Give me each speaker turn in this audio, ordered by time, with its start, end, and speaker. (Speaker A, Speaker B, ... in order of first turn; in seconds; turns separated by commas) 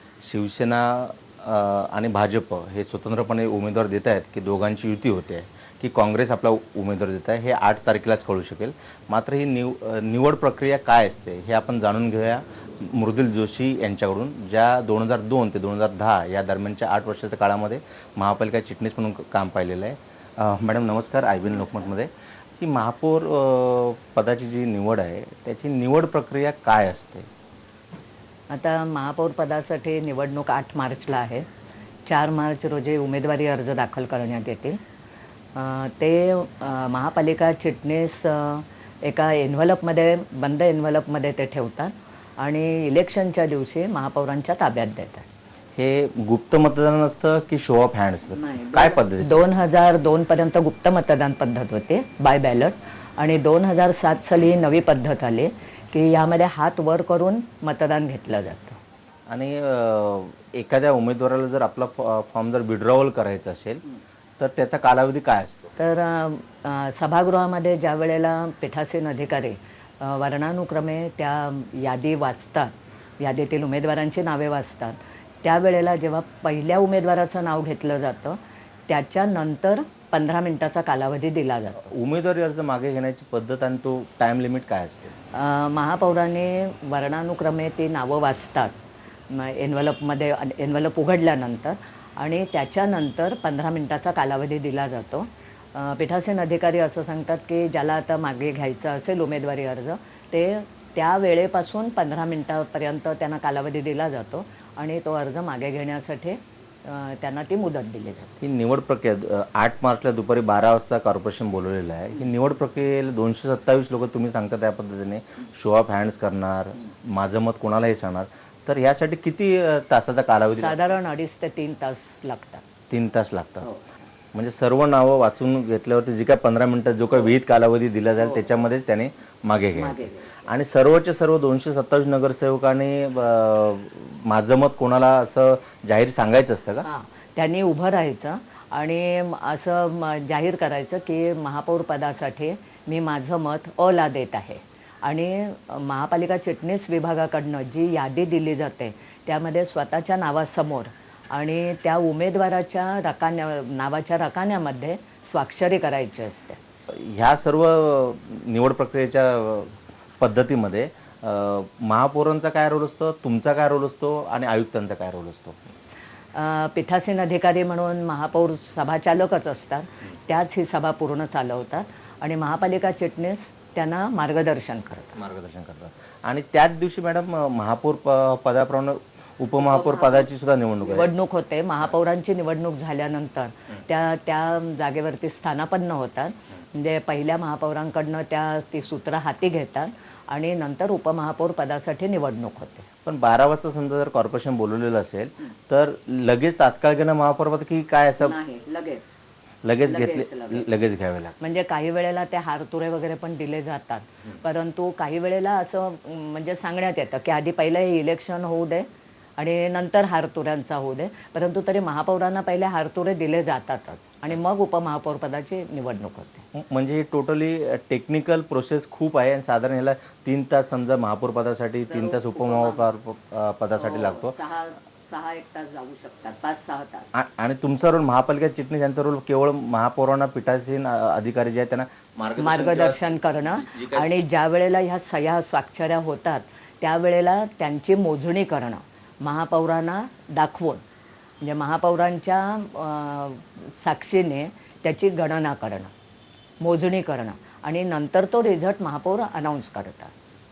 Speaker A: 0.2-27.3, Speaker B: 21.6-21.9, Speaker B: 28.5-31.5, Speaker B: 32.1-34.8, Speaker B: 35.5-45.3, Speaker A: 45.8-49.5, Speaker B: 48.3-58.8, Speaker A: 59.3-63.8, Speaker A: 64.4-65.7, Speaker B: 65.8-81.9, Speaker A: 81.8-85.1, Speaker B: 85.3-88.8, Speaker B: 89.3-108.3, Speaker A: 108.4-120.8, Speaker B: 120.5-122.7, Speaker A: 122.9-123.7, Speaker B: 123.6-123.9, Speaker A: 124.3-136.9, Speaker B: 128.2-128.5, Speaker B: 129.7-130.4, Speaker B: 136.8-156.6, Speaker A: 156.9-165.6, Speaker B: 166.3-175.2, Speaker A: 175.2-181.1, Speaker B: 179.6-180.3, Speaker B: 180.8-192.9, Speaker A: 193.1-198.3, Speaker B: 198.2-199.2, Speaker A: 199.6-201.4, Speaker B: 199.8-200.7, Speaker B: 201.4-208.9, Speaker B: 209.4-216.4, Speaker A: 216.5-224.4, Speaker B: 221.9-222.9, Speaker B: 223.8-227.2, Speaker A: 227.1-234.2, Speaker B: 232.4-240.8, Speaker B: 241.4-245.9, Speaker B: 246.6-250.1